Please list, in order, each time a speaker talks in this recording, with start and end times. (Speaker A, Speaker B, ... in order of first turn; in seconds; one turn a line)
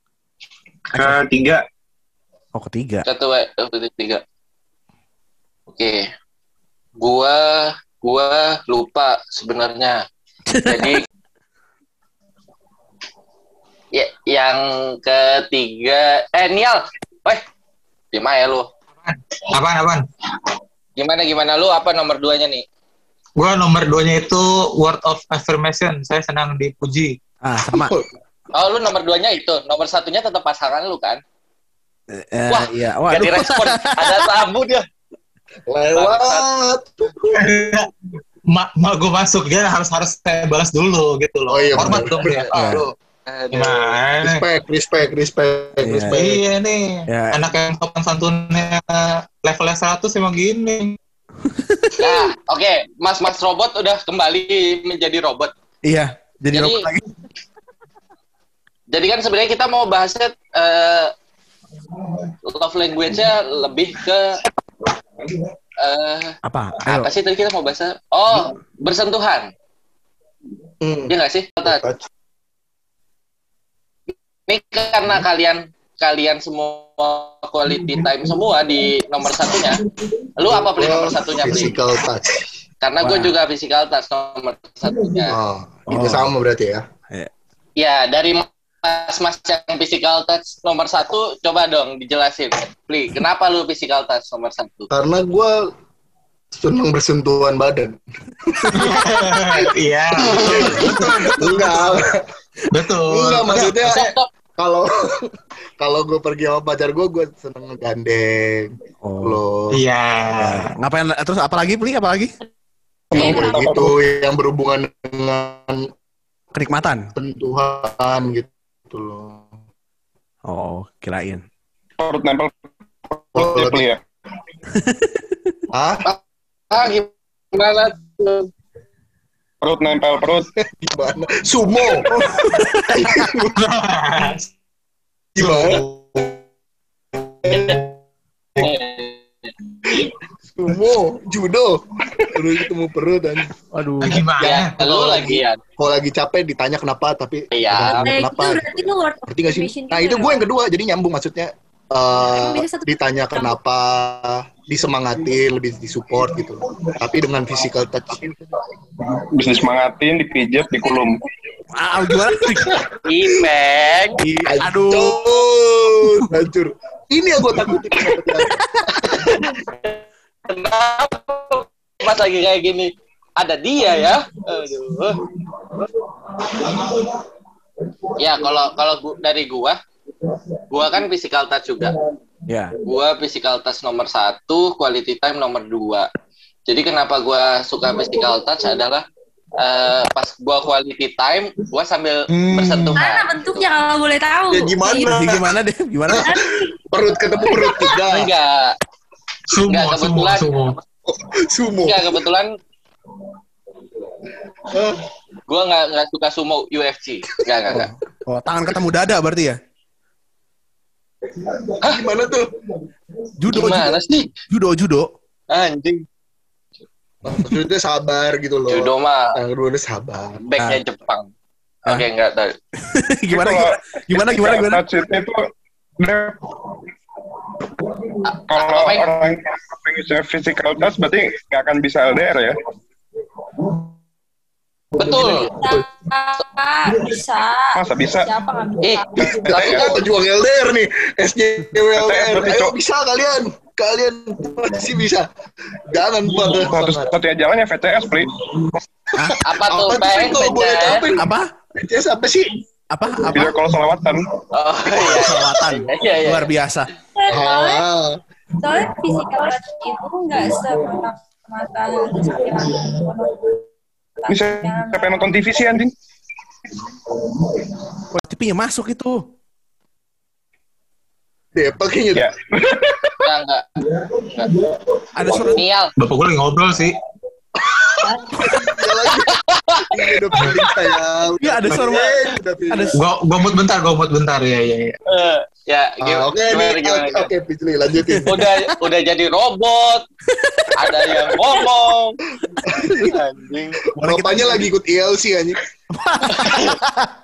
Speaker A: 0.9-1.6
Speaker B: 2.5-3.1
Speaker C: 3.1-4.2
Speaker C: 5.7-6.1
Speaker C: 7.0-10.0
Speaker B: 10.5-11.0
Speaker C: 10.7-11.0
Speaker C: 13.9-17.4
Speaker C: 18.1-18.7
Speaker D: 19.1-20.1
Speaker C: 21.0-22.6
Speaker D: 23.4-27.2
Speaker B: 27.4-27.9
Speaker E: 27.7-28.1
Speaker C: 28.5-31.2
Speaker B: 32.1-34.3
Speaker C: 32.5-34.9
Speaker E: 35.7-37.6
Speaker C: 36.0-36.5
Speaker D: 37.3-37.9
Speaker D: 38.5-42.9
Speaker E: 41.5-42.5
Speaker B: 42.5-42.9
Speaker C: 43.3-44.0
Speaker D: 43.5-44.4
Speaker E: 44.2-46.3
Speaker B: 45.8-46.4
Speaker D: 46.1-51.0
Speaker B: 47.1-47.4
Speaker B: 51.4-52.2
Speaker C: 52.0-55.5
Speaker B: 55.8-57.0
Speaker C: 56.5-56.9
Speaker C: 58.9-61.1
Speaker C: 62.4-64.4
Speaker C: 65.8-69.5
Speaker B: 66.5-67.1
Speaker E: 70.8-71.1
Speaker C: 71.1-71.9
Speaker E: 71.6-72.0
Speaker C: 74.5-79.8
Speaker E: 77.7-78.4
Speaker E: 79.2-82.5
Speaker C: 80.4-81.8
Speaker C: 82.8-85.4
Speaker B: 83.0-83.4
Speaker E: 85.3-86.8
Speaker B: 85.9-86.3
Speaker C: 87.8-94.9
Speaker E: 94.9-95.6
Speaker E: 96.5-98.0
Speaker E: 98.5-102.2
Speaker B: 98.6-99.0
Speaker D: 98.8-102.0
Speaker D: 102.7-104.1
Speaker E: 103.1-104.0
Speaker C: 103.8-104.3
Speaker E: 104.6-105.3
Speaker E: 105.8-109.8
Speaker B: 109.0-109.4
Speaker D: 109.7-110.7
Speaker B: 110.4-112.3
Speaker A: 113.1-114.0
Speaker F: 113.1-113.7
Speaker E: 113.2-115.9
Speaker B: 116.5-117.1
Speaker E: 117.2-119.5
Speaker B: 120.5-121.4
Speaker A: 122.0-122.5
Speaker A: 123.1-124.0
Speaker E: 123.4-123.9
Speaker B: 124.7-125.5
Speaker E: 125.7-126.1
Speaker C: 126.7-128.5
Speaker A: 129.6-130.5
Speaker E: 130.7-132.1
Speaker B: 132.1-133.4
Speaker E: 132.9-133.6
Speaker D: 133.5-134.5
Speaker E: 135.4-136.4
Speaker D: 135.4-135.8
Speaker E: 137.4-137.9
Speaker C: 137.4-137.9
Speaker C: 138.6-140.1
Speaker E: 139.9-143.5
Speaker B: 143.7-144.2
Speaker D: 144.0-145.3
Speaker C: 144.4-145.6
Speaker E: 144.8-158.4
Speaker C: 147.5-148.1
Speaker F: 147.9-150.5
Speaker F: 152.2-153.6
Speaker A: 159.2-161.2
Speaker B: 161.8-162.9
Speaker E: 162.6-163.1
Speaker C: 163.1-164.2
Speaker B: 164.2-165.4
Speaker E: 164.4-169.5
Speaker C: 169.1-175.2
Speaker C: 178.2-179.8
Speaker C: 180.7-182.0
Speaker B: 182.5-182.7
Speaker C: 182.8-186.1
Speaker C: 186.7-189.1
Speaker C: 189.6-193.7
Speaker E: 192.3-193.0
Speaker F: 193.0-195.2
Speaker E: 194.5-195.6
Speaker B: 195.0-196.3
Speaker E: 196.1-198.3
Speaker F: 196.2-196.7
Speaker F: 197.4-198.0
Speaker C: 198.1-198.8
Speaker D: 199.5-200.8
Speaker C: 199.7-200.5
Speaker E: 201.1-202.2
Speaker C: 201.8-202.5
Speaker E: 204.7-205.0
Speaker C: 205.5-207.9
Speaker E: 207.7-208.0
Speaker B: 208.3-209.6
Speaker E: 211.3-212.5
Speaker B: 213.4-215.1
Speaker C: 213.5-214.3
Speaker C: 215.5-216.1
Speaker E: 217.2-220.4
Speaker C: 218.7-219.3
Speaker C: 220.4-221.3
Speaker C: 221.8-222.6
Speaker B: 222.9-224.8
Speaker A: 223.3-225.4
Speaker A: 226.0-226.8
Speaker C: 228.3-229.1
Speaker A: 228.4-232.6
Speaker E: 234.9-235.9
Speaker C: 235.0-235.5
Speaker F: 235.2-239.5
Speaker A: 237.7-238.3
Speaker C: 238.8-240.1
Speaker A: 239.2-240.0
Speaker E: 239.2-245.3
Speaker A: 242.0-242.8
Speaker E: 245.8-247.1
Speaker A: 246.3-248.3
Speaker E: 248.5-252.6
Speaker C: 249.4-251.1
Speaker B: 251.2-251.5
Speaker B: 252.9-253.6
Speaker A: 253.3-254.3
Speaker E: 253.4-253.8
Speaker C: 254.5-256.5
Speaker B: 255.0-256.9
Speaker F: 257.1-257.9
Speaker E: 257.3-258.2
Speaker F: 258.6-263.6
Speaker A: 260.4-260.8
Speaker F: 264.2-265.6
Speaker A: 264.3-265.9
Speaker A: 266.8-267.8
Speaker B: 268.1-269.2
Speaker E: 271.6-272.3
Speaker A: 272.1-273.2
Speaker C: 273.2-273.7
Speaker C: 274.3-274.6
Speaker B: 275.1-275.6
Speaker C: 275.3-275.9
Speaker D: 276.0-277.0
Speaker E: 277.6-282.9
Speaker F: 278.0-278.6
Speaker C: 279.3-280.7
Speaker B: 281.4-282.2
Speaker C: 281.8-282.2
Speaker B: 282.7-283.0
Speaker D: 282.9-285.0
Speaker C: 285.1-287.3
Speaker E: 286.0-288.6
Speaker B: 288.0-288.4
Speaker C: 288.3-290.0
Speaker B: 290.3-290.9
Speaker C: 290.8-292.2
Speaker E: 292.7-293.1
Speaker B: 292.7-293.1
Speaker C: 293.0-293.8
Speaker B: 294.0-294.7
Speaker E: 294.0-295.6
Speaker B: 296.0-297.1
Speaker C: 296.3-296.8